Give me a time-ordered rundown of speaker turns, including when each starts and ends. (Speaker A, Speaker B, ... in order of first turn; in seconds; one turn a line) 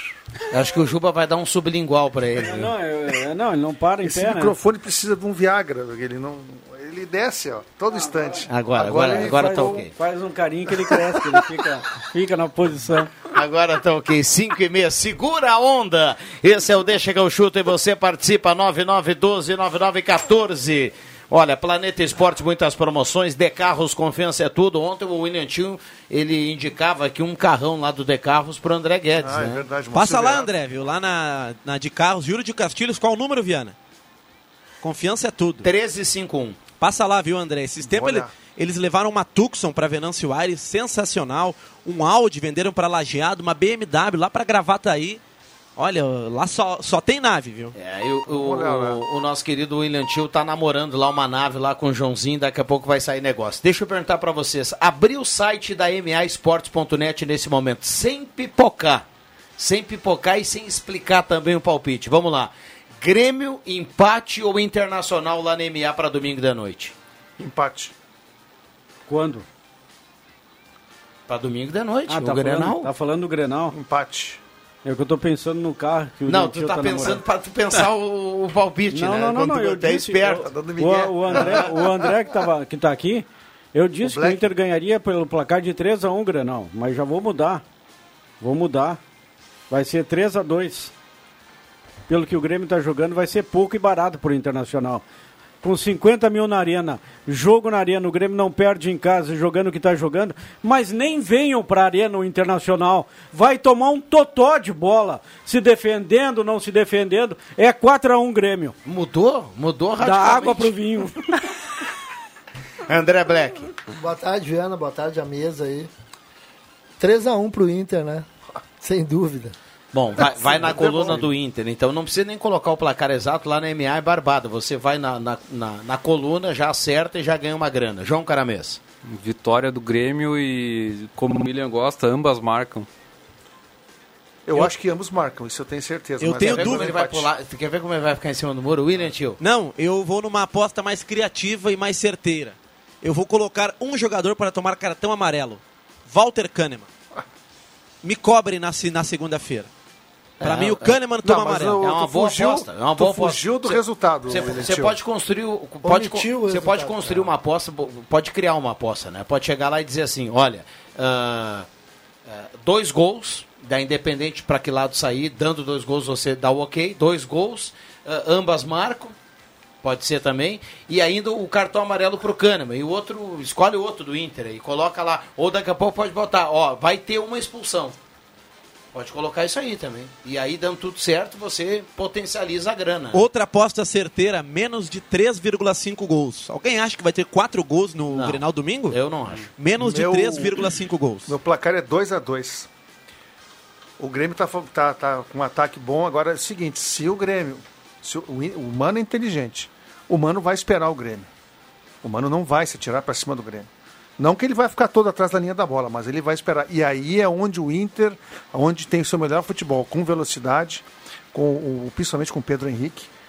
Speaker A: 0.5-2.7
Speaker B: 2.4-4.5
Speaker C: 4.0-9.8
Speaker A: 8.5-9.9
Speaker B: 8.9-13.1
Speaker A: 13.3-29.8
Speaker C: 29.2-30.5
Speaker D: 29.9-33.8
Speaker D: 34.8-35.7
Speaker A: 35.6-36.6
Speaker D: 36.8-45.2
Speaker C: 37.8-38.3
Speaker D: 45.8-47.8
Speaker A: 47.8-59.0
Speaker C: 48.3-49.0
Speaker A: 59.6-67.0
Speaker C: 67.4-67.9
Speaker B: 69.1-69.5
Speaker A: 71.3-72.9
Speaker B: 72.1-73.8
Speaker C: 73.7-74.4
Speaker B: 74.8-77.2
Speaker A: 76.3-80.5
Speaker B: 78.9-87.6
Speaker C: 80.4-82.2
Speaker A: 81.3-81.6
Speaker C: 84.0-84.5
Speaker B: 88.4-89.0
Speaker B: 89.7-90.9
Speaker B: 92.1-95.0
Speaker B: 95.6-108.8
Speaker A: 108.8-110.7
Speaker B: 110.0-111.3
Speaker A: 112.9-113.7
Speaker E: 114.0-115.9
Speaker E: 117.0-118.3
Speaker E: 118.8-119.5
Speaker A: 119.9-128.8
Speaker C: 120.2-121.3
Speaker F: 129.1-132.9
Speaker C: 134.5-137.3
Speaker D: 136.2-136.9
Speaker A: 136.4-139.4
Speaker D: 139.4-146.9
Speaker D: 148.0-149.7
Speaker A: 150.4-151.0
Speaker D: 150.4-151.8
Speaker C: 151.2-155.0
Speaker A: 151.8-161.7
Speaker E: 155.8-157.3
Speaker A: 162.3-169.2
Speaker A: 169.8-178.0
Speaker A: 178.9-183.2
Speaker D: 183.1-189.0
Speaker A: 188.1-189.5
Speaker D: 189.5-191.3
Speaker C: 189.8-190.6
Speaker C: 191.3-192.7
Speaker C: 194.0-201.3
Speaker C: 202.0-213.1